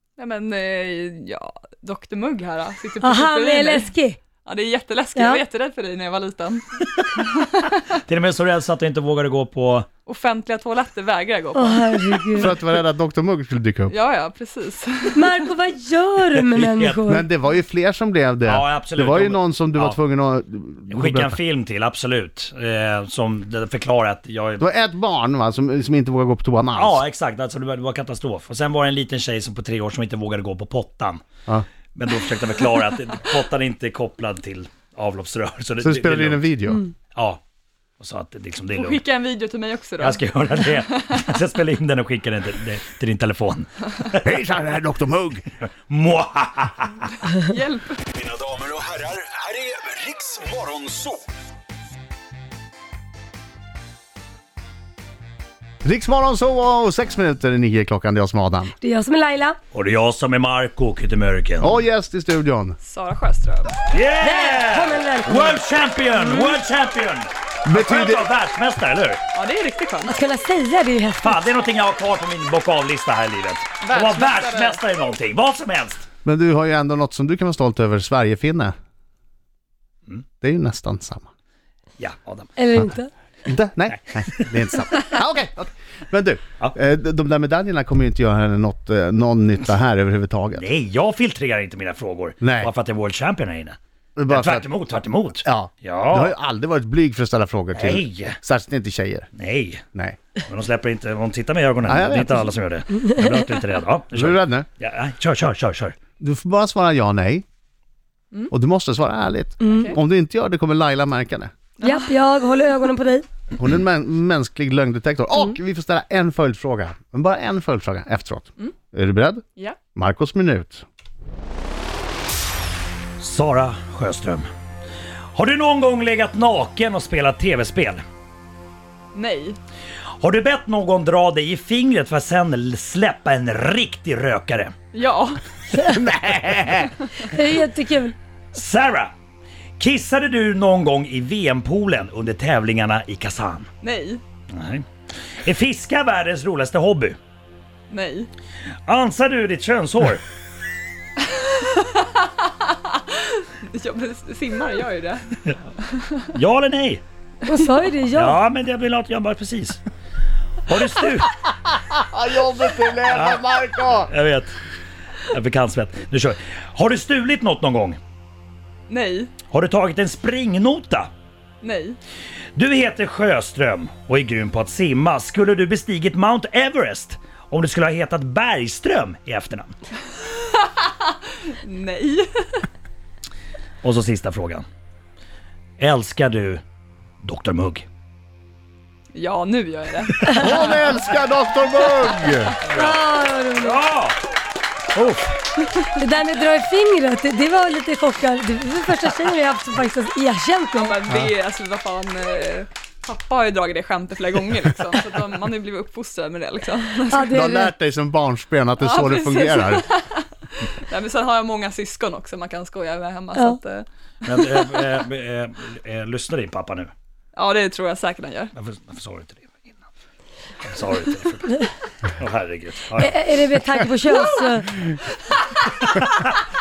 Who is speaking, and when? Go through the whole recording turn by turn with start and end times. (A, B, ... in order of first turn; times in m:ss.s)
0:00.2-0:08.0 A
0:03.0-0:04.2 B
0:05.1-0:05.4 B
0:08.0-0:09.9 C
0:10.0-0:12.5 A
0:11.5-0:12.5 B
0:12.4-0:13.9 D
0:13.9-0:15.4 A
0:15.1-0:17.2 B
0:16.3-0:17.0 C
0:17.0-0:21.4 D
0:18.4-0:20.0 C
0:20.9-0:24.6 C
0:24.6-0:27.0 D
0:26.7-0:31.2 C
0:31.9-0:36.4 C
0:35.8-0:36.8 D
0:37.1-0:37.4 C
0:38.0-0:39.0 C
0:38.7-0:41.4 A
0:40.0-0:44.2 C
0:44.2-0:45.4 D
0:45.9-0:47.1 C
0:47.3-0:48.0 A
0:48.2-0:49.8 C
0:48.6-0:50.6 E
0:50.4-0:51.2 C
0:55.8-0:58.7 D
0:58.7-0:59.6 B
0:59.7-1:01.8 C
1:01.6-1:02.8 D
1:02.8-1:03.8 A
1:03.9-1:09.2 C
1:04.2-1:05.6 B
1:06.1-1:06.5 B
1:07.6-1:08.3 D
1:09.3-1:10.2 A
1:10.0-1:11.5 B
1:11.2-1:16.0 C
1:13.8-1:14.8 A
1:16.2-1:18.7 D
1:20.4-1:21.3 D
1:22.0-1:22.5 C
1:22.6-1:23.1 B
1:23.4-1:30.6 D
1:30.5-1:33.8 C
1:32.4-1:32.7 D
1:34.2-1:34.7 D
1:34.3-1:36.3 C
1:35.4-1:39.3 D
1:37.7-1:38.4 C
1:39.4-1:39.8 C
1:40.5-1:45.9 C
1:41.8-1:42.5 D
1:43.0-1:43.4 B
1:44.1-1:44.7 D
1:46.2-1:47.4 D
1:48.5-1:51.5 D
1:49.6-1:49.9 B
1:49.6-1:50.0 A
1:51.8-1:52.2 A
1:51.8-1:53.2 B
1:53.6-1:59.4 D
1:59.9-2:00.8 D
2:03.2-2:04.4 C
2:05.3-2:08.0 C
2:09.1-2:09.6 A
2:10.2-2:14.7 C
2:14.9-2:15.4 A
2:15.7-2:16.0 B
2:15.8-2:16.9 D
2:16.8-2:17.3 A
2:17.2-2:18.1 B
2:18.5-2:19.1 C
2:19.8-2:23.7 C
2:23.8-2:24.2 A
2:24.5-2:24.8 C
2:25.4-2:27.2 C
2:27.9-2:28.3 A
2:28.8-2:30.2 C
2:31.2-2:36.2 A
2:36.3-2:37.0 C
2:37.4-2:38.4 B
2:37.5-2:37.9 A
2:38.1-2:39.8 C
2:40.6-2:41.3 C
2:41.6-2:44.1 D
2:43.1-2:43.4 C
2:44.1-2:44.6 C
2:45.3-2:48.0 C
2:48.9-2:49.4 A
2:49.5-2:51.1 C
2:51.6-2:52.0 A
2:52.6-2:59.7 C
3:00.4-3:02.6 A
3:03.8-3:04.6 C
3:05.8-3:06.6 C
3:07.2-3:07.8 C
3:09.1-3:10.8 A
3:10.3-3:12.6 D
3:12.6-3:13.0 C
3:12.7-3:13.8 B
3:13.6-3:14.2 C
3:14.9-3:15.3 C
3:15.6-3:16.2 A
3:15.9-3:21.0 B
3:20.7-3:27.4 A
3:27.1-3:27.7 B
3:27.3-3:29.8 D
3:28.8-3:34.6 A
3:33.3-3:33.6 B
3:34.2-3:36.9 C
3:37.3-3:38.5 A
3:38.6-3:39.8 C
3:40.6-3:43.2 C
3:42.9-3:44.7 B
3:44.1-3:45.9 A
3:45.9-3:46.4 C